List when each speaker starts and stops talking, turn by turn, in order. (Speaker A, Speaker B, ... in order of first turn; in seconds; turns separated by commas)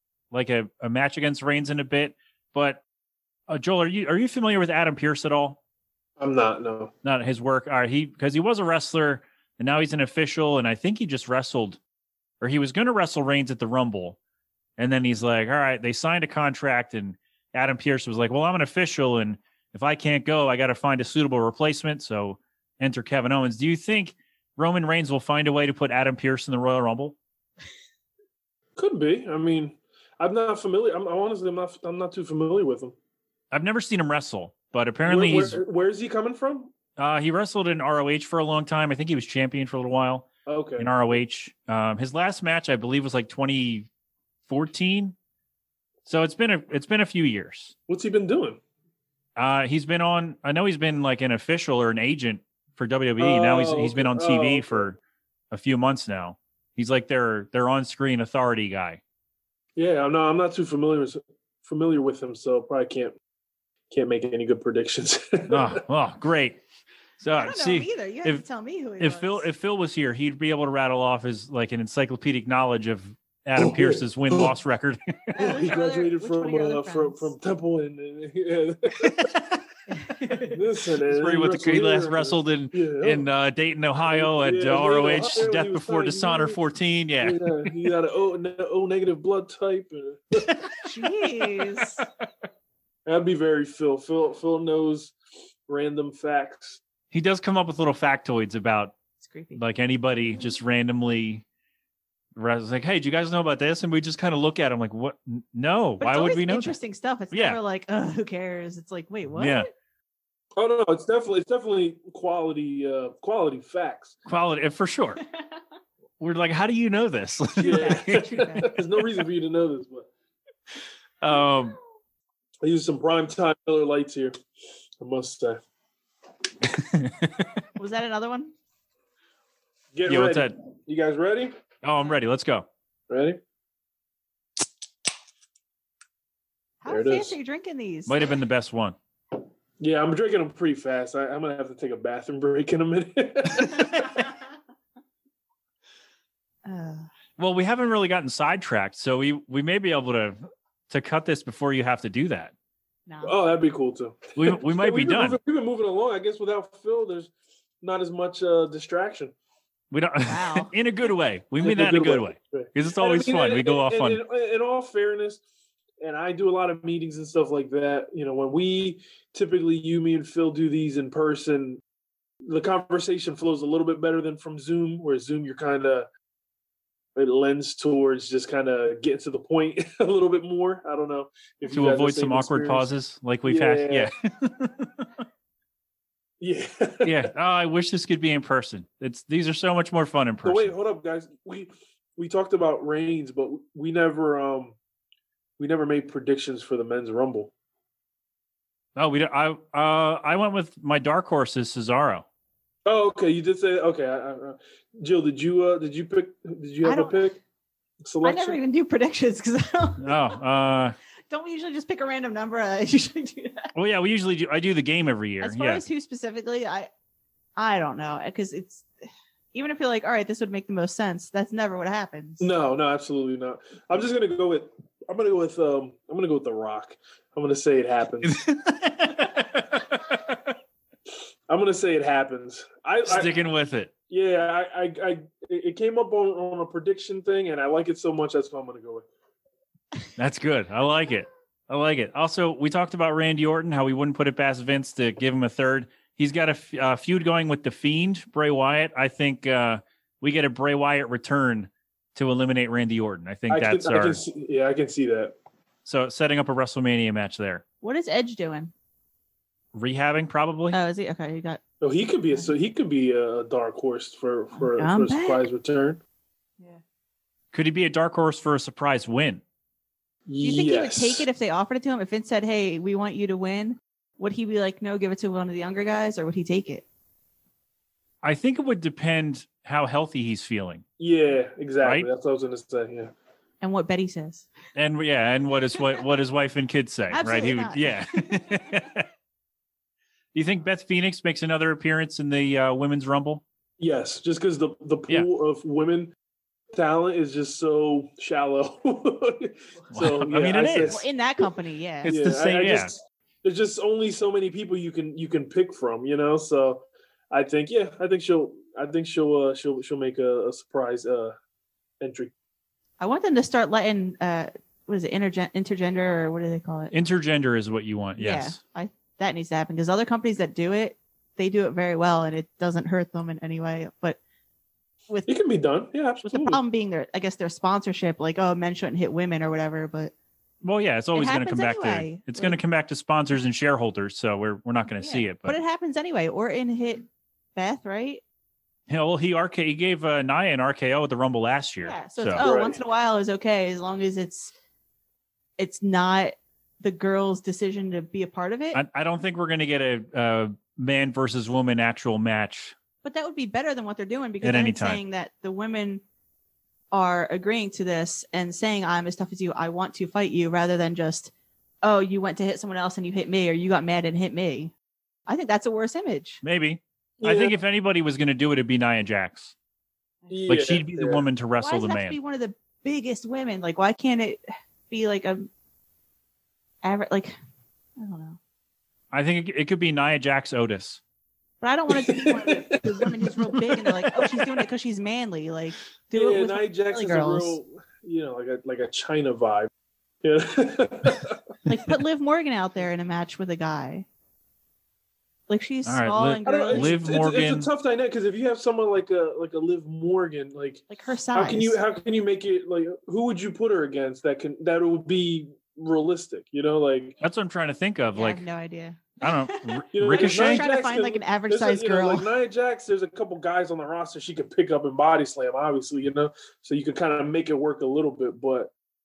Speaker A: 0.3-2.8, Speaker A: 3.5-5.6, Speaker B: 6.2-6.9, Speaker A: 7.0-11.8, Speaker A: 12.4-14.2, Speaker A: 14.8-27.2, Speaker B: 28.8-32.9, Speaker A: 33.5-35.6, Speaker B: 35.0-36.7, Speaker A: 37.0-43.9, Speaker B: 40.5-41.1, Speaker A: 44.5-45.1, Speaker A: 46.0-47.7, Speaker B: 47.9-48.6, Speaker A: 49.4-55.0, Speaker B: 53.2-54.9, Speaker A: 55.5-59.0, Speaker B: 59.8-63.2, Speaker B: 63.9-65.7, Speaker A: 65.5-66.6, Speaker A: 67.2-68.4, Speaker C: 67.3-69.5, Speaker A: 69.0-75.4, Speaker B: 73.6-74.5, Speaker C: 75.3-77.3, Speaker B: 75.4-79.3, Speaker A: 79.0-79.6, Speaker C: 79.9-80.6, Speaker B: 80.4-83.2, Speaker A: 81.1-87.7, Speaker B: 84.1-86.6, Speaker B: 87.2-90.5, Speaker C: 90.8-92.0, Speaker B: 93.0-95.1, Speaker B: 95.7-96.8, Speaker A: 97.1-98.9, Speaker C: 99.2-99.6, Speaker A: 99.5-101.4, Speaker A: 102.3-106.7, Speaker C: 106.0-109.7, Speaker A: 107.3-107.6, Speaker A: 109.3-109.7, Speaker B: 110.6-114.2, Speaker A: 114.2-115.2, Speaker A: 116.2-118.8, Speaker C: 117.6-118.7, Speaker B: 117.6-120.1, Speaker A: 121.2-121.8, Speaker B: 122.6-124.3, Speaker B: 125.0-125.6, Speaker A: 126.6-127.6, Speaker C: 127.8-128.5, Speaker B: 129.9-131.5, Speaker A: 130.1-130.6, Speaker A: 131.8-132.7, Speaker B: 133.1-133.4, Speaker C: 136.8-138.2, Speaker B: 136.9-137.3, Speaker A: 138.1-138.9, Speaker B: 139.8-144.3, Speaker C: 146.6-147.1, Speaker A: 147.4-152.5, Speaker C: 153.1-153.3, Speaker B: 153.2-159.3, Speaker A: 154.3-155.4, Speaker A: 159.9-164.2, Speaker C: 160.2-160.7, Speaker B: 161.6-165.4, Speaker B: 166.0-171.8, Speaker B: 172.4-176.1, Speaker B: 177.2-182.9, Speaker A: 181.7-185.1, Speaker B: 183.4-184.1, Speaker B: 186.4-187.2, Speaker A: 187.0-190.7, Speaker B: 190.4-194.8, Speaker B: 195.6-197.5, Speaker A: 198.9-202.2, Speaker B: 202.8-207.4, Speaker C: 206.8-207.2, Speaker B: 208.0-208.6, Speaker C: 208.2-210.1, Speaker A: 210.0-210.9, Speaker C: 211.3-213.7, Speaker A: 213.7-215.8, Speaker C: 215.4-216.9, Speaker C: 217.6-218.8, Speaker C: 219.5-222.5, Speaker B: 222.4-228.4, Speaker A: 228.2-230.4, Speaker B: 231.5-233.3, Speaker A: 233.1-233.9, Speaker B: 234.1-239.1, Speaker A: 240.2-254.2, Speaker B: 253.5-255.3, Speaker A: 255.8-257.6, Speaker C: 257.8-258.7, Speaker A: 259.7-260.8, Speaker C: 260.7-261.6, Speaker B: 261.8-266.0, Speaker C: 264.6-265.4, Speaker A: 267.5-269.4, Speaker B: 270.3-271.2, Speaker C: 270.4-276.8, Speaker A: 278.2-280.8, Speaker B: 281.0-283.1, Speaker A: 281.8-282.1, Speaker C: 283.6-284.5, Speaker A: 284.7-289.1, Speaker C: 287.1-288.4, Speaker A: 290.3-293.4, Speaker B: 293.8-296.1, Speaker B: 296.7-301.1, Speaker A: 299.9-301.0, Speaker C: 300.8-302.1, Speaker A: 302.0-302.9, Speaker B: 302.1-311.4, Speaker B: 312.0-312.3, Speaker C: 313.0-316.9, Speaker A: 316.9-318.6, Speaker C: 318.2-324.2, Speaker B: 325.3-326.6, Speaker C: 326.2-330.1, Speaker A: 330.6-335.6, Speaker C: 331.1-332.6, Speaker C: 335.0-337.0, Speaker C: 337.6-338.2, Speaker A: 338.9-342.5, Speaker C: 341.8-344.5, Speaker B: 342.4-342.8, Speaker C: 345.6-348.8, Speaker A: 348.7-352.7, Speaker C: 353.0-356.0, Speaker A: 354.4-355.0, Speaker C: 356.9-361.3, Speaker C: 361.8-364.7, Speaker C: 365.3-366.4, Speaker A: 366.4-369.5, Speaker B: 367.2-367.5, Speaker B: 370.3-371.2, Speaker A: 370.5-372.2, Speaker C: 371.6-375.5, Speaker C: 376.8-377.4, Speaker C: 378.0-378.4, Speaker A: 379.1-381.0, Speaker C: 381.6-387.6, Speaker B: 381.9-384.5, Speaker B: 386.1-389.7, Speaker B: 390.2-391.4, Speaker C: 391.7-394.1, Speaker C: 395.5-396.9, Speaker A: 395.8-397.7, Speaker B: 396.4-407.2, Speaker C: 400.9-401.8, Speaker A: 407.2-408.4, Speaker C: 408.1-412.3, Speaker A: 409.2-410.6, Speaker B: 409.9-418.7